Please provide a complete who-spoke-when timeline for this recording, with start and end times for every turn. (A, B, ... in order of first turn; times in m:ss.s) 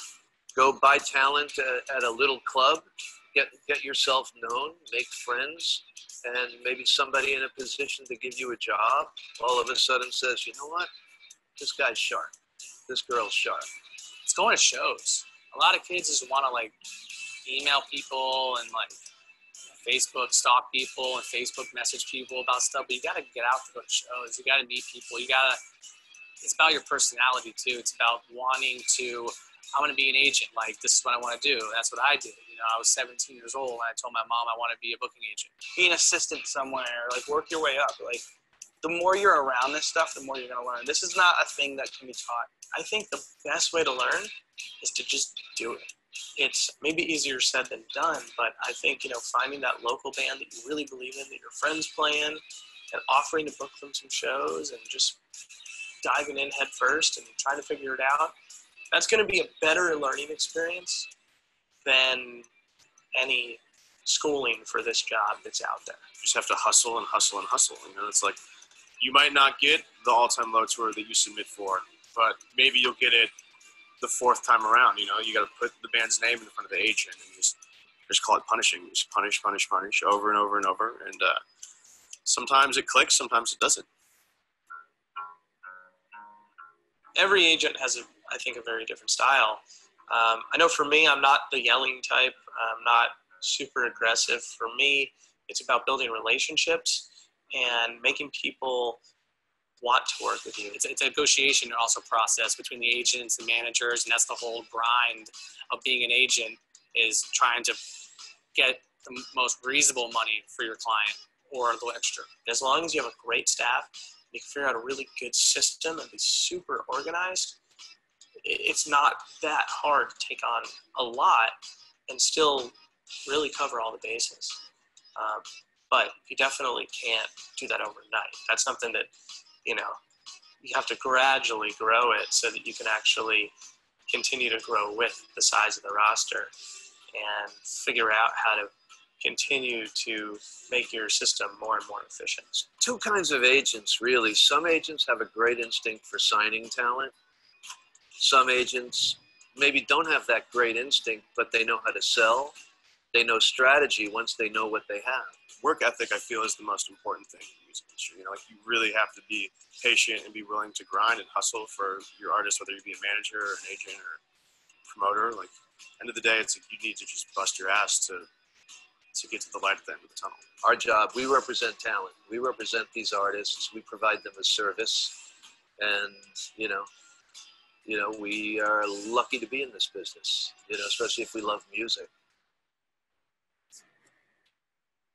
0:00.5-0:10.9 A
0:11.6-0:12.3 A
0:12.9-0:13.7 A
0:14.2-0:16.7 B
0:17.4-0:19.0 B
0:19.8-0:25.6 B
0:26.4-0:35.6 B
0:35.7-0:38.2 C
0:38.8-0:42.6 C
0:42.7-0:55.2 D
0:56.0-0:58.3 D
0:58.9-1:01.1 D
1:01.8-1:02.5 D
1:03.1-1:06.1 D
1:06.2-1:08.4 E
1:09.0-1:13.3 E
1:14.0-1:17.5 E
1:18.1-1:21.4 E
1:22.2-1:23.8 E
1:27.1-1:39.0 D
1:39.8-1:40.8 D
1:40.7-1:47.8 B
1:48.5-1:52.3 B
1:52.4-1:57.6 D
1:58.4-2:01.6 D
2:02.1-2:02.7 D
2:03.2-2:04.6 D
2:05.2-2:09.1 D
2:09.6-2:10.0 D
2:10.6-2:13.5 D
2:14.1-2:16.5 D
2:17.1-2:22.7 D
2:22.8-2:27.1 A
2:28.2-2:32.6 A
2:33.1-2:35.3 A
2:35.6-2:44.2 E
2:44.8-2:48.3 E
2:49.1-2:50.4 E
2:50.6-2:55.2 A
2:55.8-2:56.9 A
2:57.8-3:02.1 A